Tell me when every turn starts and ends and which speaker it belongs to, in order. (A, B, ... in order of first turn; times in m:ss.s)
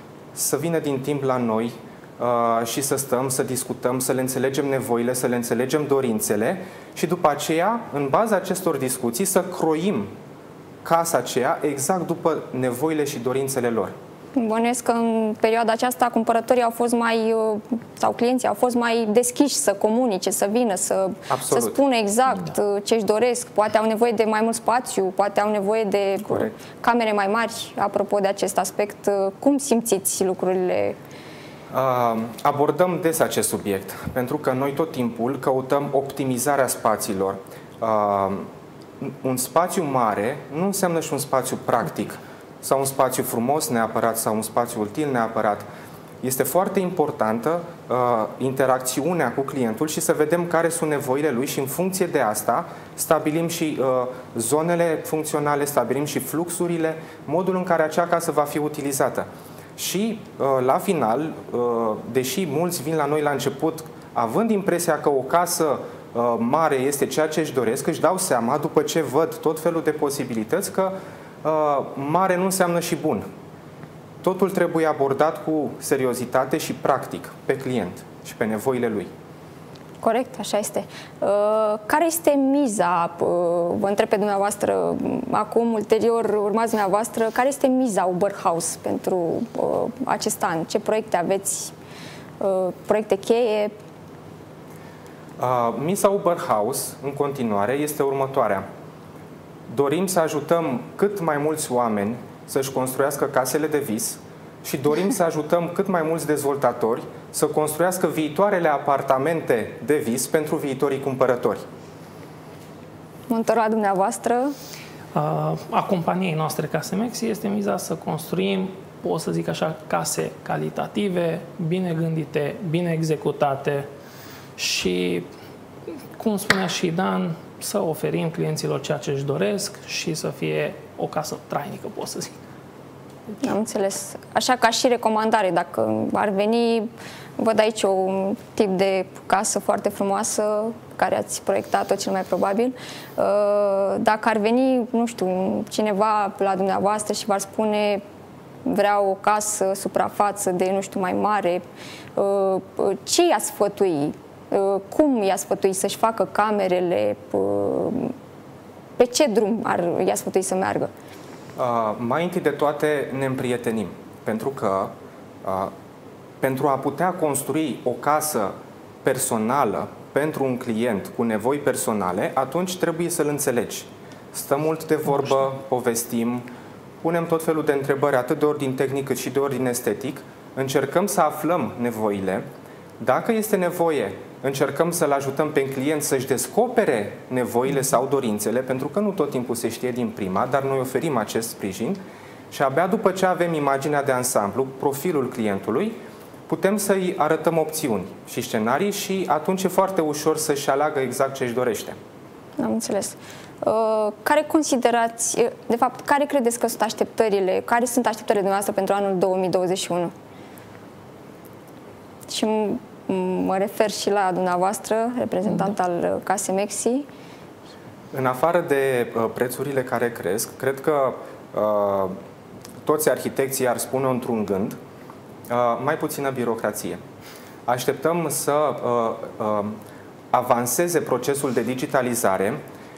0:00.3-0:10.1 A
0:10.8-0:13.9 A
0:14.4-0:31.0 B
0:21.3-0:21.8 A
0:31.7-0:38.5 A
0:39.0-0:45.7 A
0:46.2-1:13.2 A
1:14.2-1:19.1 A
1:20.0-1:31.7 B
1:32.4-1:33.7 B
1:35.4-1:38.6 A
1:39.7-1:51.6 A
1:53.3-1:54.5 B
1:55.1-2:03.9 C
2:04.6-2:05.3 C
2:06.2-2:12.4 C
2:13.4-2:28.0 B
2:28.6-2:31.6 B
2:32.2-2:38.1 B
2:39.0-2:40.9 B
2:41.6-2:44.9 A
2:45.4-2:45.7 A
2:46.4-2:48.5 A
2:49.0-2:56.5 A
2:57.0-3:02.4 A
3:03.0-3:16.0 A
3:16.5-3:22.0 A
3:22.6-3:30.1 B
3:32.3-3:37.1 B
3:38.1-3:42.1 A
3:42.8-3:44.8 A
3:45.5-3:47.0 A
3:47.7-3:49.8 A
3:50.3-3:52.6 A